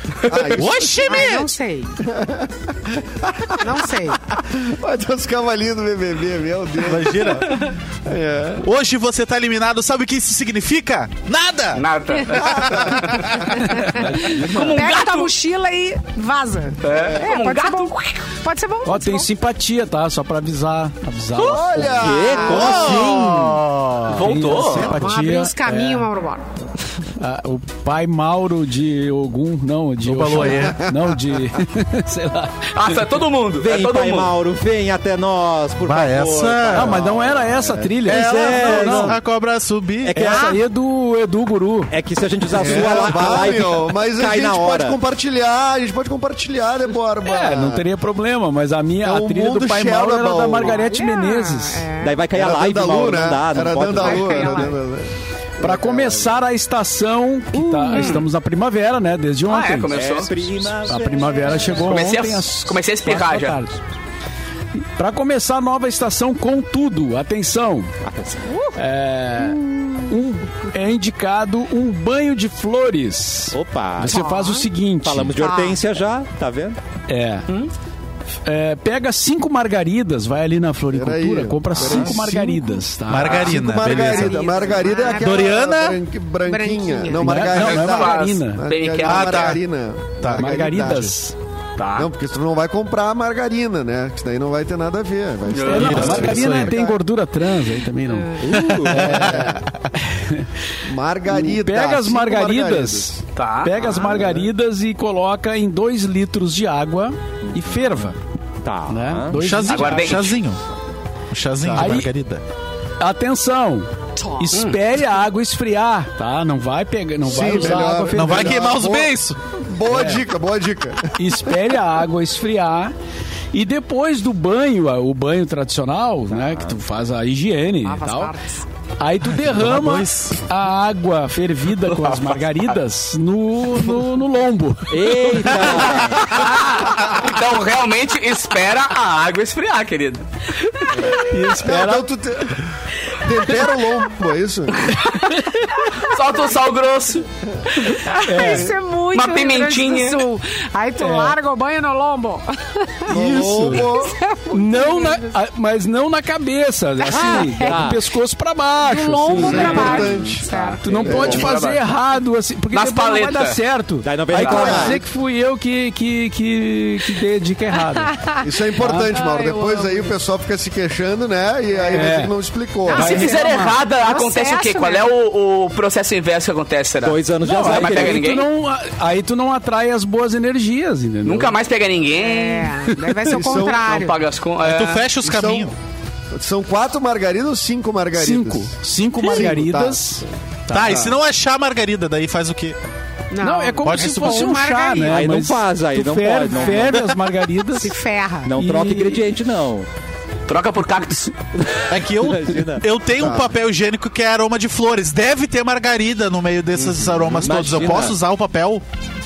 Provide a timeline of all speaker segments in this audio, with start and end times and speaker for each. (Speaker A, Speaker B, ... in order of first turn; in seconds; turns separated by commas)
Speaker A: 0.3-1.0, Speaker B: 0.6-1.5, Speaker C: 1.0-1.9, Speaker A: 2.0-3.7, Speaker C: 3.6-4.2, Speaker A: 4.4-8.7, Speaker B: 6.9-7.6, Speaker B: 8.6-11.8, Speaker D: 11.8-13.4, Speaker A: 12.3-13.4, Speaker B: 12.5-13.5, Speaker C: 13.6-19.3, Speaker D: 14.3-15.3, Speaker E: 14.3-14.8, Speaker D: 16.8-18.2, Speaker F: 18.9-22.1, Speaker A: 21.4-23.1, Speaker E: 21.9-23.6, Speaker C: 22.3-22.7, Speaker B: 22.5-24.9, Speaker D: 24.1-25.0, Speaker F: 24.1-26.1, Speaker C: 24.8-26.5, Speaker F: 27.2-33.0, Speaker B: 30.1-30.8, Speaker A: 30.4-31.1, Speaker D: 32.8-34.3, Speaker E: 33.6-39.2, Speaker B: 35.9-37.0, Speaker F: 36.7-39.2, Speaker B: 38.1-40.3, Speaker E: 40.0-40.6, Speaker F: 40.2-41.9, Speaker E: 41.9-45.0, Speaker A: 42.5-47.9, Speaker F: 47.2-51.9, Speaker A: 49.0-50.9, Speaker C: 50.7-52.2, Speaker E: 52.0-54.6, Speaker A: 52.3-56.4, Speaker C: 54.0-54.8, Speaker F: 55.6-59.9, Speaker E: 57.7-58.1, Speaker C: 57.9-58.2, Speaker D: 57.9-58.2, Speaker D: 59.5-60.3, Speaker E: 59.9-61.9, Speaker F: 60.8-63.8, Speaker D: 61.7-63.6, Speaker F: 65.0-68.0, Speaker E: 68.0-68.5, Speaker F: 68.8-75.4, Speaker C: 69.4-70.1, Speaker E: 73.5-74.3, Speaker C: 74.1-74.7, Speaker E: 75.0-76.8, Speaker C: 75.4-75.8, Speaker F: 77.1-77.5, Speaker F: 78.5-83.5, Speaker A: 80.9-91.1, Speaker E: 81.8-82.3, Speaker B: 83.1-84.4, Speaker C: 83.9-85.5, Speaker B: 85.2-86.0, Speaker C: 86.4-87.5, Speaker F: 87.2-88.7, Speaker D: 87.5-89.6, Speaker B: 89.0-89.6, Speaker B: 90.2-91.1, Speaker F: 90.3-91.4, Speaker D: 91.8-92.1, Speaker A: 92.0-97.0, Speaker D: 95.5-96.4, Speaker F: 95.7-99.4, Speaker B: 95.8-96.7, Speaker C: 98.1-98.6, Speaker E: 98.4-99.4, Speaker B: 98.8-99.5, Speaker A: 99.0-99.7, Speaker F: 100.0-100.5, Speaker A: 100.8-103.2, Speaker F: 101.3-108.2, Speaker D: 103.3-103.8, Speaker E: 104.2-104.5, Speaker E: 107.5-108.1, Speaker E: 108.6-109.5, Speaker F: 108.9-110.2, Speaker B: 109.4-110.6, Speaker D: 109.7-110.4, Speaker B: 111.3-112.4, Speaker A: 111.6-112.0, Speaker F: 111.8-112.1, Speaker F: 113.0-118.8, Speaker A: 117.2-121.3, Speaker B: 118.1-119.4, Speaker F: 119.9-120.2, Speaker F: 121.2-122.9, Speaker F: 123.5-128.3, Speaker E: 126.3-126.8, Speaker C: 127.8-128.7, Speaker F: 129.0-135.6, Speaker B: 129.5-130.4, Speaker D: 131.9-132.4, Speaker E: 134.9-136.5, Speaker D: 135.6-140.2, Speaker F: 141.1-142.1, Speaker A: 141.5-144.8, Speaker D: 144.8-147.2, Speaker C: 147.9-153.2, Speaker F: 148.2-148.7, Speaker D: 149.1-150.3, Speaker F: 151.0-151.4, Speaker A: 153.1-154.2, Speaker F: 153.1-153.9, Speaker C: 153.8-155.2, Speaker F: 154.5-160.0, Speaker C: 157.0-157.8, Speaker E: 157.2-158.0, Speaker C: 158.8-161.3, Speaker A: 159.3-161.5, Speaker D: 159.5-161.8, Speaker F: 160.8-168.2, Speaker D: 162.7-163.6, Speaker E: 164.0-165.0, Speaker A: 164.3-165.0, Speaker C: 168.2-168.5, Speaker A: 168.4-173.3, Speaker F: 168.8-169.1, Speaker C: 169.1-170.1, Speaker C: 171.8-172.1, Speaker F: 171.9-172.3, Speaker C: 172.9-175.1, Speaker D: 172.9-178.5, Speaker F: 172.9-173.8, Speaker E: 177.0-178.4, Speaker F: 177.4-181.5, Speaker D: 181.2-182.8, Speaker C: 182.1-184.2, Speaker A: 183.3-183.9, Speaker D: 183.6-185.1, Speaker B: 184.6-185.7, Speaker A: 185.2-185.7, Speaker A: 186.3-190.2, Speaker F: 188.2-190.2, Speaker B: 190.7-192.8, Speaker A: 190.7-191.2, Speaker C: 193.3-195.2, Speaker F: 193.4-198.0, Speaker B: 193.8-194.8, Speaker E: 195.1-197.0, Speaker B: 196.7-197.1, Speaker C: 197.7-198.5, Speaker E: 198.4-199.9, Speaker F: 198.5-199.3, Speaker D: 200.5-201.4, Speaker E: 201.8-202.9, Speaker B: 201.9-208.8, Speaker A: 203.1-203.5, Speaker E: 207.2-208.2